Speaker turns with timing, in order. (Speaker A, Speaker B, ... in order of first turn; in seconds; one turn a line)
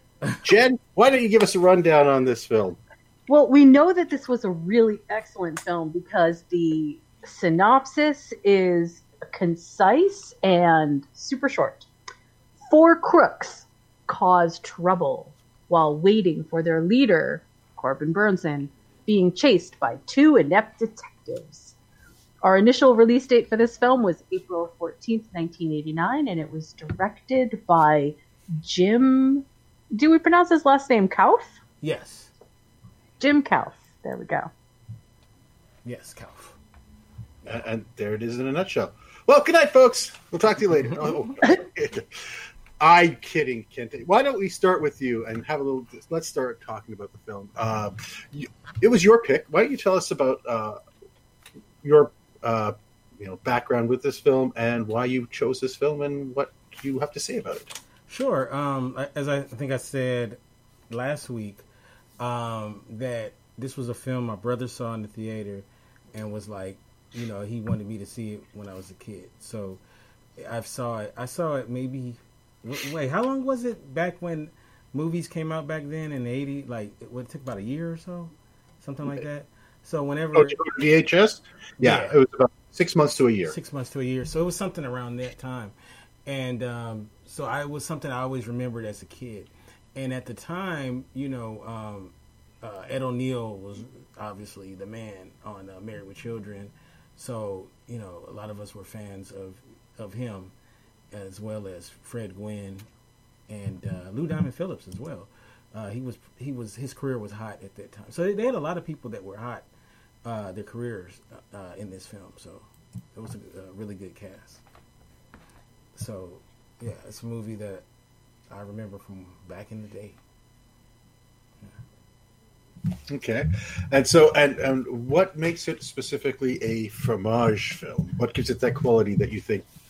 Speaker A: 0.4-2.8
Speaker B: 3.3-11.9
Speaker B: 12.7-21.7
Speaker B: 22.4-31.6
Speaker C: 31.8-32.3
Speaker B: 33.2-34.5
Speaker C: 35.9-36.6
Speaker A: 37.5-50.8
Speaker A: 51.8-57.7
Speaker C: 58.1-61.6
Speaker C: 62.2-69.8
Speaker C: 70.4-80.6
Speaker A: 80.3-83.5
Speaker C: 81.8-82.2
Speaker C: 83.5-85.7
Speaker C: 86.3-100.5
Speaker C: 101.1-102.9
Speaker C: 103.5-109.7
Speaker C: 110.2-114.6
Speaker C: 116.0-117.8
Speaker C: 118.5-120.2
Speaker A: 123.1-129.7